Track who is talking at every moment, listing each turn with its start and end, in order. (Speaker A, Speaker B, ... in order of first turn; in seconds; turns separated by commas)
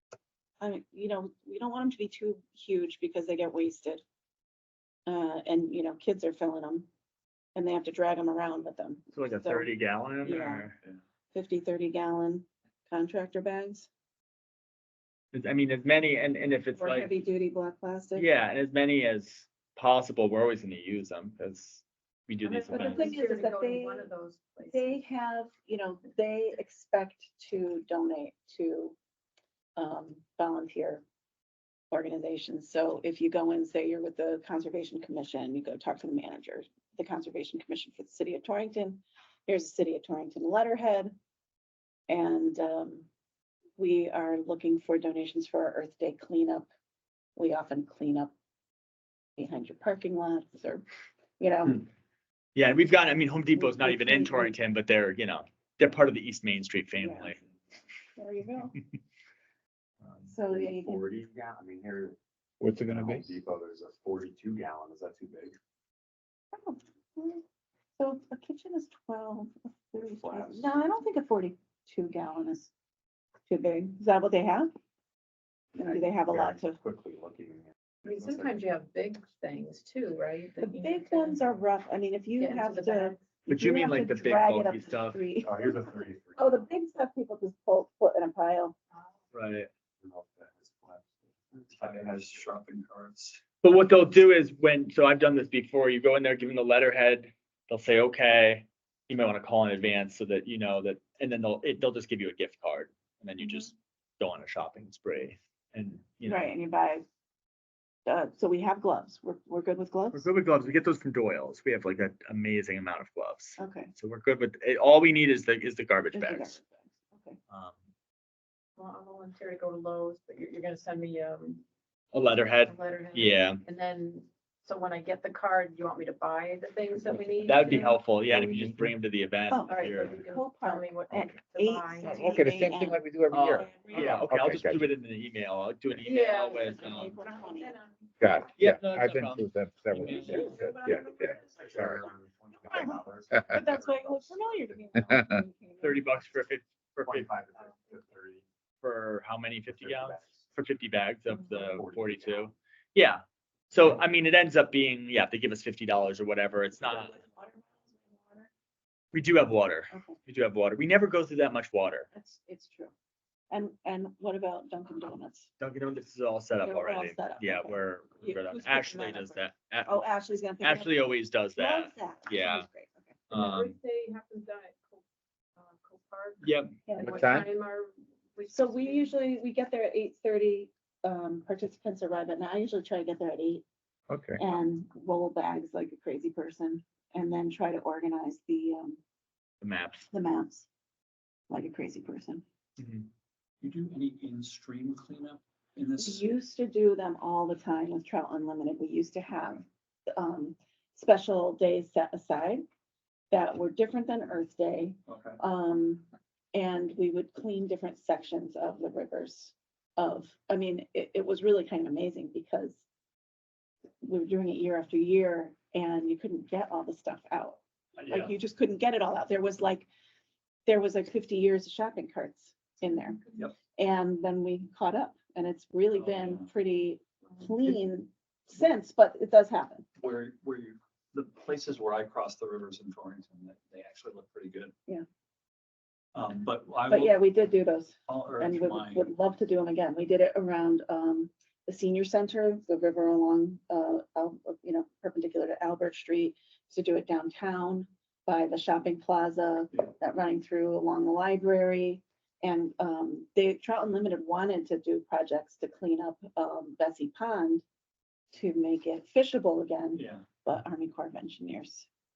Speaker A: 0.6-4.0, Speaker A: 5.1-6.9, Speaker A: 7.5-10.7, Speaker B: 9.1-10.8, Speaker A: 11.3-13.9, Speaker B: 15.3-17.1, Speaker A: 16.8-18.3, Speaker B: 18.1-23.2, Speaker C: 22.4-25.0, Speaker A: 22.7-24.1, Speaker A: 24.7-29.0, Speaker A: 29.8-31.0, Speaker A: 31.9-41.1, Speaker A: 42.1-43.1, Speaker A: 43.8-46.7, Speaker A: 47.4-48.3, Speaker A: 49.4-50.9, Speaker A: 51.4-51.9, Speaker B: 52.5-57.4, Speaker A: 53.6-54.5, Speaker A: 57.0-57.4, Speaker A: 58.2-58.8, Speaker A: 60.3-61.0, Speaker D: 60.5-62.2, Speaker E: 62.6-63.3, Speaker D: 62.9-65.6, Speaker A: 66.5-67.4, Speaker A: 68.0-72.7, Speaker D: 70.2-70.7, Speaker A: 73.5-74.7, Speaker A: 75.8-76.8, Speaker D: 76.1-78.6, Speaker C: 78.0-81.6, Speaker A: 80.6-88.8, Speaker C: 82.4-83.2, Speaker B: 83.5-85.2, Speaker D: 85.4-86.5, Speaker B: 89.3-89.7, Speaker D: 90.0-92.3, Speaker F: 91.7-93.4, Speaker B: 93.6-106.5, Speaker A: 103.4-103.7, Speaker A: 106.2-107.0, Speaker A: 108.1-110.3, Speaker B: 110.1-116.6, Speaker A: 113.6-113.9, Speaker A: 116.1-117.4, Speaker B: 117.5-117.8, Speaker C: 118.8-121.6, Speaker B: 122.1-123.6, Speaker C: 122.6-128.0, Speaker B: 127.4-130.2, Speaker E: 128.3-128.9, Speaker A: 129.5-134.2, Speaker C: 129.7-132.3, Speaker E: 132.0-134.9, Speaker B: 133.3-137.2, Speaker C: 135.9-138.1, Speaker A: 136.7-137.8, Speaker E: 138.2-142.0, Speaker B: 138.6-140.5, Speaker A: 140.1-142.0, Speaker C: 140.3-141.1, Speaker D: 141.4-144.3, Speaker A: 142.6-146.1, Speaker E: 145.0-145.3, Speaker B: 145.8-147.3, Speaker D: 147.1-148.4, Speaker B: 148.8-157.1, Speaker D: 149.7-150.5, Speaker D: 151.5-152.5, Speaker A: 156.8-158.5, Speaker B: 159.1-162.1, Speaker A: 159.9-160.2, Speaker A: 162.1-162.9, Speaker A: 163.5-165.5, Speaker B: 165.6-170.0, Speaker A: 166.6-173.2, Speaker B: 170.6-172.7, Speaker B: 173.3-173.8, Speaker C: 173.3-175.0, Speaker C: 175.6-179.2, Speaker B: 176.4-176.7, Speaker A: 176.9-177.2, Speaker E: 177.0-177.5, Speaker A: 178.5-183.6, Speaker E: 184.1-184.4, Speaker A: 184.4-189.0, Speaker B: 189.6-190.1, Speaker A: 190.1-190.7, Speaker A: 191.5-192.4, Speaker B: 192.8-193.1, Speaker F: 193.6-196.2, Speaker A: 196.0-202.6, Speaker A: 203.3-212.8, Speaker F: 205.1-205.4, Speaker A: 214.0-219.9, Speaker F: 218.0-218.3, Speaker A: 220.7-223.2, Speaker A: 223.8-229.8, Speaker F: 225.9-226.5, Speaker F: 230.0-234.7, Speaker F: 236.1-237.2, Speaker A: 236.9-257.6, Speaker F: 238.1-239.1, Speaker A: 258.3-261.9, Speaker F: 260.0-260.2